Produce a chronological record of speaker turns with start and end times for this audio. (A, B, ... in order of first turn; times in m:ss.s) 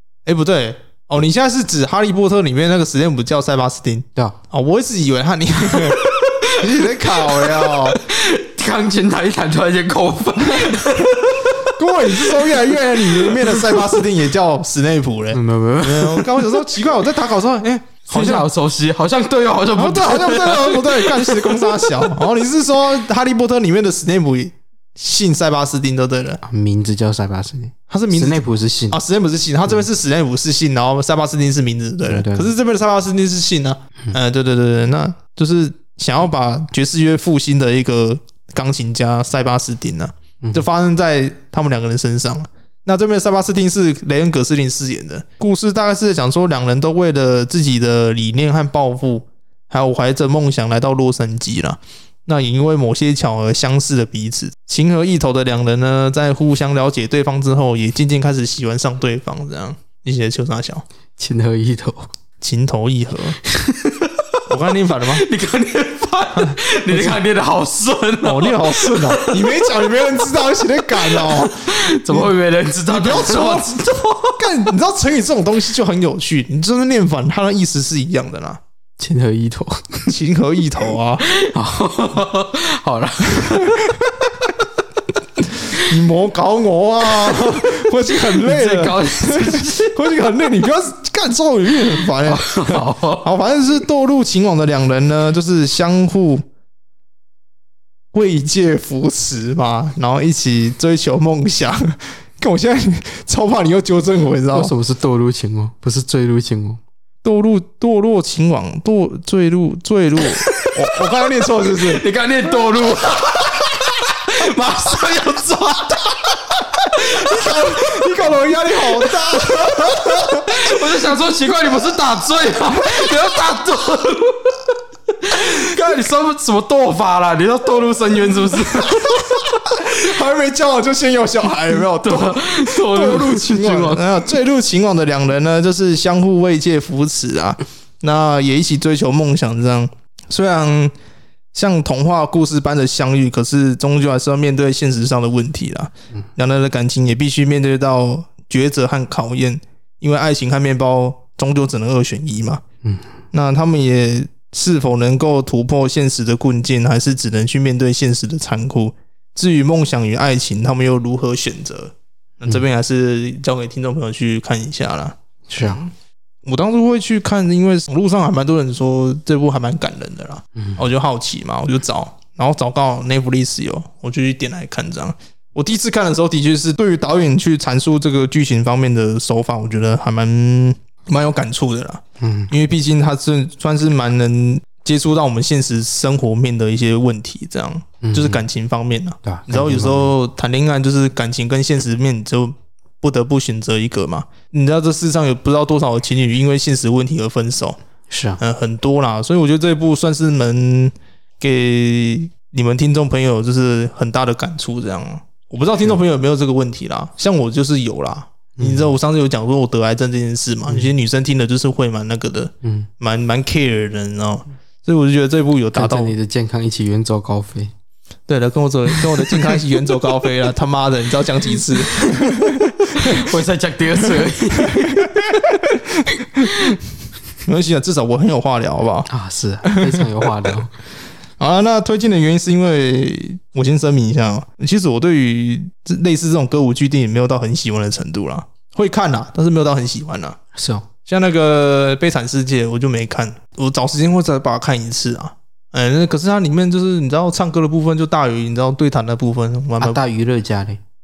0:00.2-0:08.0 A
0:05.7-0:14.0 B
0:11.7-0:18.5 A
0:15.3-0:16.6 B
0:18.1-0:22.0 B
0:19.8-0:26.4 A
0:26.4-0:29.0 B
0:27.9-1:00.8 A
0:32.1-0:32.5 B
0:40.4-0:40.7 B
1:01.2-1:02.1 B
1:02.4-1:03.4 A
1:03.4-1:04.4 B
1:04.5-1:05.2 A
1:05.1-1:09.7 B
1:06.4-1:07.2 A
1:08.2-1:12.3 A
1:10.9-1:14.4 B
1:12.9-1:18.6 A
1:19.0-1:20.1 B
1:20.1-1:21.2 A
1:21.2-1:24.6 B
1:23.4-1:23.7 A
1:25.7-1:36.4 A
1:27.1-1:30.0 B
1:32.1-1:33.3 B
1:38.1-1:44.7 A
1:44.5-1:46.8 B
1:47.2-1:52.0 A
1:50.4-1:50.7 B
1:51.6-2:04.6 B
1:57.1-2:00.7 A
2:05.2-2:09.5 B
2:08.8-2:20.9 A
2:11.8-2:14.3 B
2:21.5-2:32.6 A
2:33.3-2:45.9 A
2:45.5-2:45.8 B
2:46.4-3:17.8 A
2:50.6-2:50.8 B
3:02.2-3:02.5 B
3:08.0-3:08.4 B
3:09.2-3:10.1 B
3:18.1-3:18.4 B
3:18.4-3:36.1 A
3:28.6-3:28.9 B
3:32.6-3:32.9 B
3:35.7-3:37.7 B
3:38.3-3:43.2 A
3:38.9-3:39.6 B
3:42.0-3:45.3 B
3:44.7-3:46.5 A
3:46.4-3:46.8 B
3:47.4-3:49.1 A
3:49.1-3:50.7 B
3:49.6-3:50.6 A
3:51.4-4:00.4 A
4:00.5-4:00.8 B
4:01.0-4:10.0 A
4:09.8-4:10.8 B